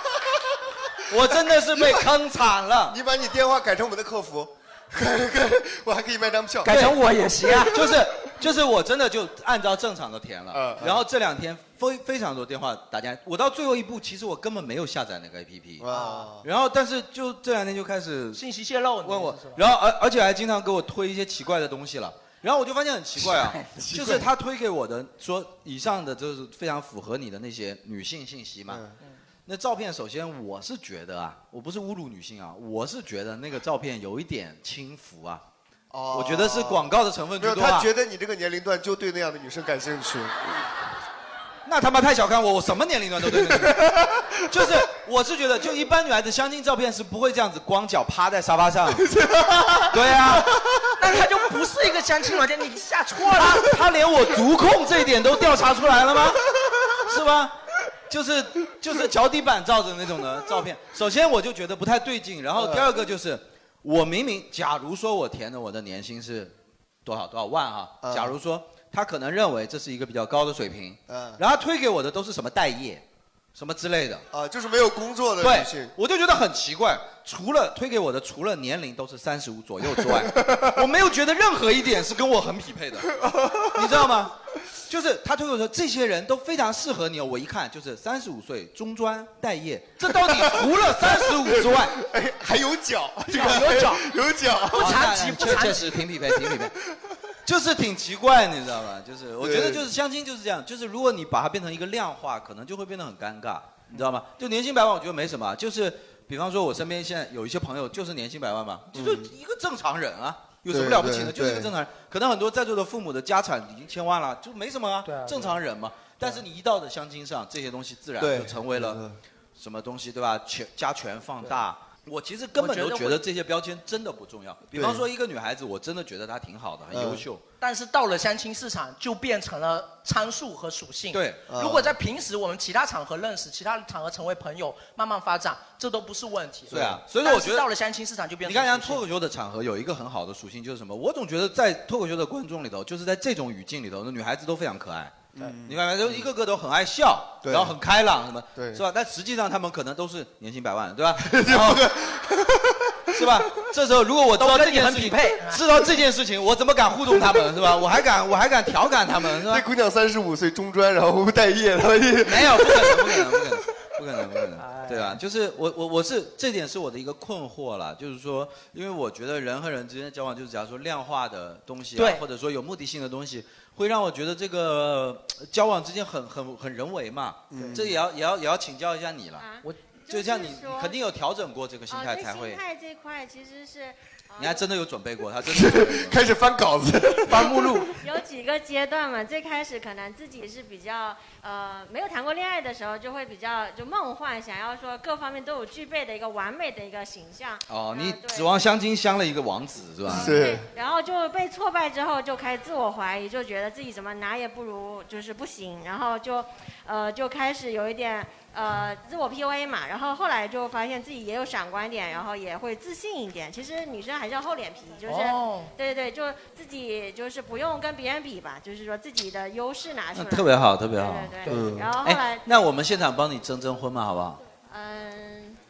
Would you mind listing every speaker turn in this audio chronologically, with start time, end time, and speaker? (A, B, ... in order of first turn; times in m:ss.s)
0:01.1-0:03.0 A
0:01.7-0:02.0 B
0:02.9-0:06.8 B
0:06.6-0:07.8 C
0:06.7-0:07.0 A
0:07.6-0:15.9 A
0:10.5-0:11.0 B
0:15.8-0:16.5 B
0:15.9-0:16.3 C
0:16.4-0:18.4 A
0:18.3-0:19.6 C
0:19.0-0:28.8 A
0:23.4-0:23.8 C
0:23.8-0:24.3 B
0:28.7-0:29.0 B
0:29.5-0:35.4 A
0:35.9-0:36.9 B
0:36.1-0:37.9 A
0:37.4-0:40.6 B
0:41.7-0:43.9 A
0:43.4-0:44.3 B
0:44.5-0:49.1 A
0:49.0-0:50.6 B
0:49.9-0:50.5 A
0:51.0-0:53.7 C
0:53.3-0:56.4 A
0:57.0-0:57.6 A
0:58.1-1:06.5 A
1:02.6-1:02.9 B
1:07.0-1:13.0 A
1:08.0-1:08.4 B
1:11.1-1:11.4 B
1:13.6-1:14.2 A
1:14.3-1:15.9 B
1:15.4-1:23.1 A
1:23.2-1:23.9 B
1:23.7-1:24.4 A
1:24.9-1:31.9 A
1:30.1-1:35.0 B
1:33.3-1:34.1 C
1:34.7-1:36.0 C
1:34.7-1:36.7 A
1:37.5-1:59.0 A
1:39.4-1:39.9 B
1:48.9-1:49.3 B
1:50.7-1:51.7 B
1:55.0-1:55.6 C
1:58.2-1:59.2 B
1:59.6-2:07.4 A
2:02.6-2:03.2 C
2:04.7-2:05.0 B
2:06.9-2:07.3 B
2:07.6-2:19.0 C
2:11.1-2:11.4 A
2:11.5-2:11.9 B
2:16.7-2:17.7 A
2:18.4-2:31.9 A
2:25.4-2:26.3 B
2:27.4-2:27.8 B
2:28.6-2:28.8 B
2:31.2-2:33.3 B
2:33.1-2:39.6 A
2:34.4-2:35.6 C
2:39.4-2:43.5 B
2:42.2-2:59.5 A
2:44.6-2:45.2 C
2:52.0-2:52.2 C
2:57.5-2:58.0 B
2:59.4-3:01.0 D
3:00.1-3:02.6 A
3:01.9-3:04.7 D
3:04.4-3:06.2 A
3:05.5-3:07.9 B
3:07.3-3:07.8 C
3:07.9-3:18.6 D
3:17.7-3:20.5 A
3:20.1-3:42.5 D
3:20.1-3:20.7 B
3:35.1-3:35.7 C
3:40.1-3:41.4 A
3:41.4-3:41.8 C
3:41.5-3:41.9 B
3:42.0-3:44.4 A
3:44.6-3:45.6 D